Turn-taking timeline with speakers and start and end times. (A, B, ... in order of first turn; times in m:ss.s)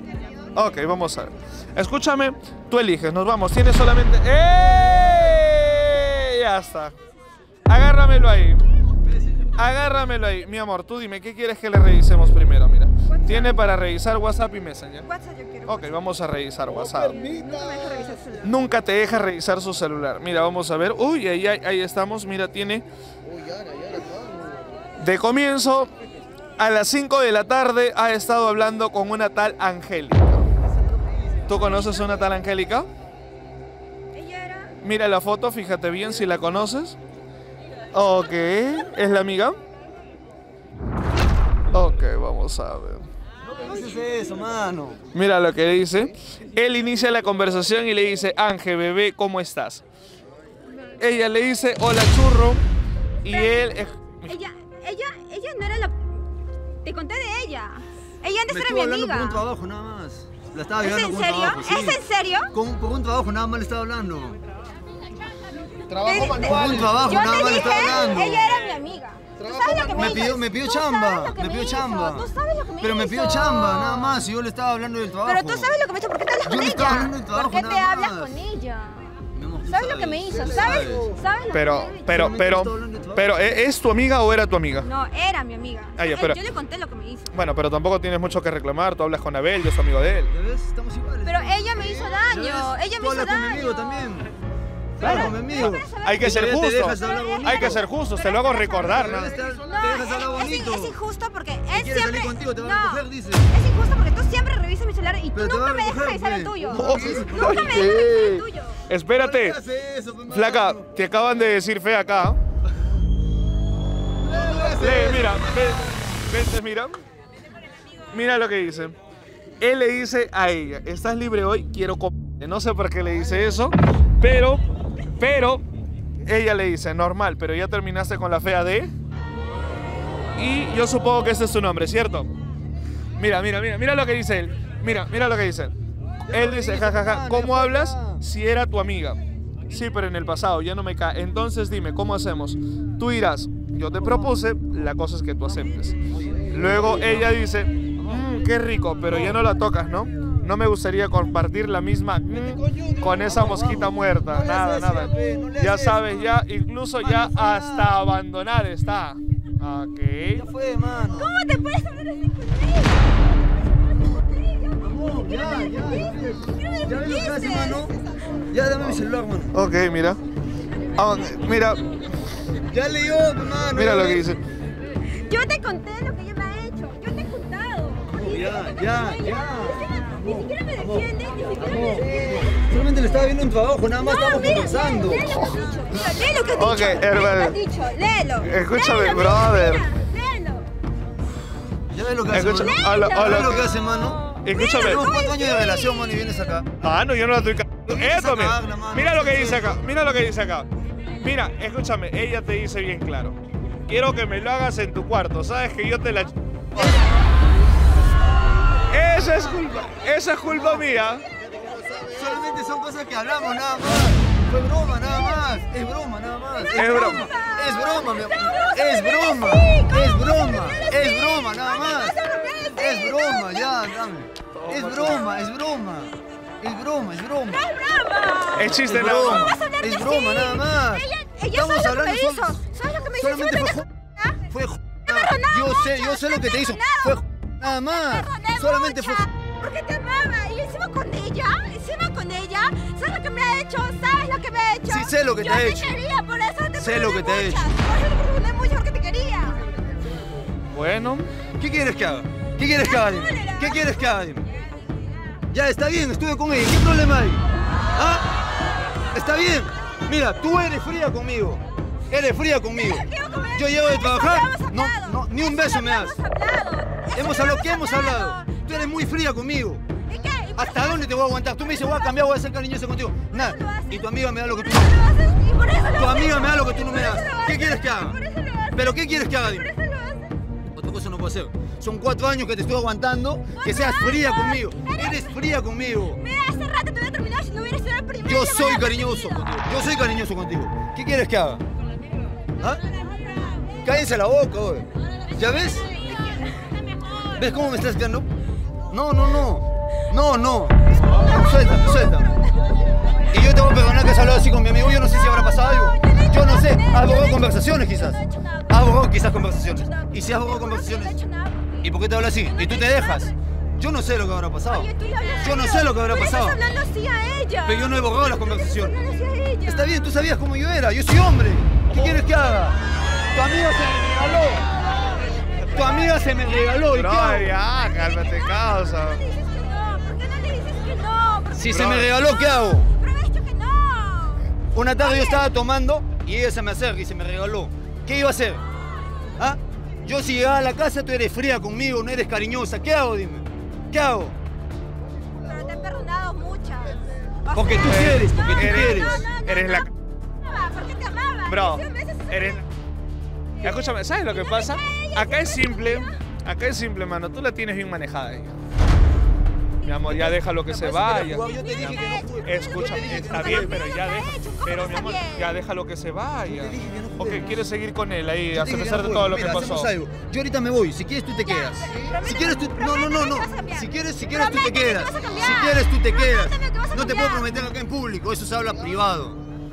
0:00.5-0:06.9 A
0:07.7-0:08.6 A
0:09.0-0:09.5 B
0:09.6-0:15.0 A
0:13.1-0:13.6 C
0:15.0-0:16.0 C
0:15.7-0:17.2 A
0:17.0-0:18.5 C
0:18.4-0:22.8 A
0:25.0-0:25.9 A
0:26.6-0:30.5 A
0:30.6-0:31.8 B
0:31.5-0:32.9 A
0:31.5-0:32.2 C
0:34.1-0:34.7 C
0:34.8-0:37.0 A
0:37.9-0:39.6 A
0:41.7-0:43.1 A
0:43.4-0:45.0 B
0:45.1-0:49.8 A
0:51.0-0:52.6 A
0:53.2-0:54.4 A
0:53.3-0:53.7 C
0:54.2-0:56.1 C
0:56.8-0:59.4 C
0:58.5-1:04.4 B
1:00.8-1:02.5 C
1:05.9-1:14.2 C
1:06.1-1:08.5 B
1:09.9-1:15.7 B
1:15.2-1:22.1 C
1:16.4-1:18.3 B
1:19.3-1:21.1 B
1:21.5-1:24.9 A
1:22.1-1:23.6 B
1:24.8-1:27.4 C
1:26.0-1:26.4 A
1:27.3-1:30.3 A
1:30.3-1:34.3 B
1:31.2-1:34.2 C
1:35.0-1:37.8 B
1:35.0-1:39.3 A
1:35.2-1:48.8 C
1:38.8-1:41.0 B
1:41.7-1:43.5 B
1:45.3-1:48.4 B
1:46.7-1:47.9 A
1:48.9-1:49.6 A
1:49.1-1:50.9 B
1:50.3-1:52.4 A
1:54.2-1:55.5 B
1:54.7-1:57.0 A
1:58.1-1:59.0 A
1:59.6-2:04.6 A
2:05.2-2:05.6 A
2:06.2-2:08.9 A
2:10.4-2:12.3 A
2:13.2-2:15.7 A
2:16.3-2:18.2 B
2:16.3-2:26.0 A
2:26.1-2:27.3 B
2:26.5-2:40.4 A
2:32.3-2:36.3 B
2:37.0-2:38.0 B
2:40.4-2:41.3 B
2:41.1-2:43.2 C
2:44.0-2:45.0 C
2:44.8-2:48.0 B
2:46.4-2:47.9 C
2:48.5-2:49.5 B
2:49.5-2:50.2 A
2:50.9-2:51.8 A
2:52.7-2:54.2 B
2:53.7-2:54.4 A
2:55.1-3:02.5 C
2:58.1-3:05.3 B
3:03.9-3:10.7 C
3:05.2-3:07.6 A
3:08.4-3:09.8 A
3:11.9-3:16.7 B
3:12.3-3:13.7 A
3:12.5-3:16.5 C
3:14.4-3:15.1 A
3:16.8-3:27.0 A
3:17.9-3:19.9 B
3:28.9-3:31.2 A
3:32.0-3:42.2 B
3:36.7-3:37.3 A
3:37.1-3:43.9 C
3:42.7-3:47.7 B
3:44.5-3:45.3 A
3:47.5-3:54.4 C
3:48.5-3:49.5 A
3:48.6-3:52.6 B
3:53.1-3:53.8 B
3:54.4-3:59.3 B
3:55.0-4:09.7 C
4:04.9-4:06.0 B
4:06.7-4:07.7 B
4:10.7-4:11.3 A
4:11.6-4:14.4 B
4:12.8-4:15.1 C
4:15.5-4:17.4 B
4:17.9-4:18.3 B
4:19.1-4:26.2 B
4:22.8-4:28.9 C
4:27.1-4:29.8 B
4:30.1-4:31.2 C
4:30.5-4:35.0 B
4:31.8-4:32.1 C
4:33.3-4:40.4 C
4:35.9-4:38.2 B
4:38.7-4:39.7 B
4:40.7-4:46.2 B
4:43.6-4:45.4 C
4:46.1-4:49.6 C
4:48.2-4:51.6 B
4:53.2-4:53.8 C
4:53.8-4:55.9 B
4:56.1-4:56.8 C
4:57.3-4:58.3 B
4:58.9-5:02.3 B
5:00.9-5:02.4 C
5:03.3-5:11.2 B
5:04.9-5:13.3 C
5:11.8-5:16.6 B
5:14.6-5:18.2 C
5:17.6-5:19.0 B
5:18.7-5:20.1 C
5:19.6-5:22.8 B
5:21.9-5:22.2 A
5:23.3-5:24.6 B
5:25.6-5:26.1 A
5:25.7-5:27.5 B
5:26.9-5:29.2 A
5:28.0-5:31.7 C
5:31.5-5:32.9 B
5:31.7-5:32.1 A
5:32.6-5:35.5 C
5:34.7-5:38.6 B
5:39.4-5:44.4 B
5:45.3-5:49.9 C
5:47.5-5:49.3 B
5:47.8-5:49.9 A
5:50.4-5:52.5 C
5:51.5-5:52.6 A
5:53.6-5:56.2 C
5:53.6-5:58.6 A
5:59.8-6:09.9 A
5:59.9-6:03.8 B
6:01.6-6:02.3 C
6:03.2-6:05.6 C
6:06.5-6:07.6 B
6:08.5-6:19.4 B
6:11.4-6:17.5 C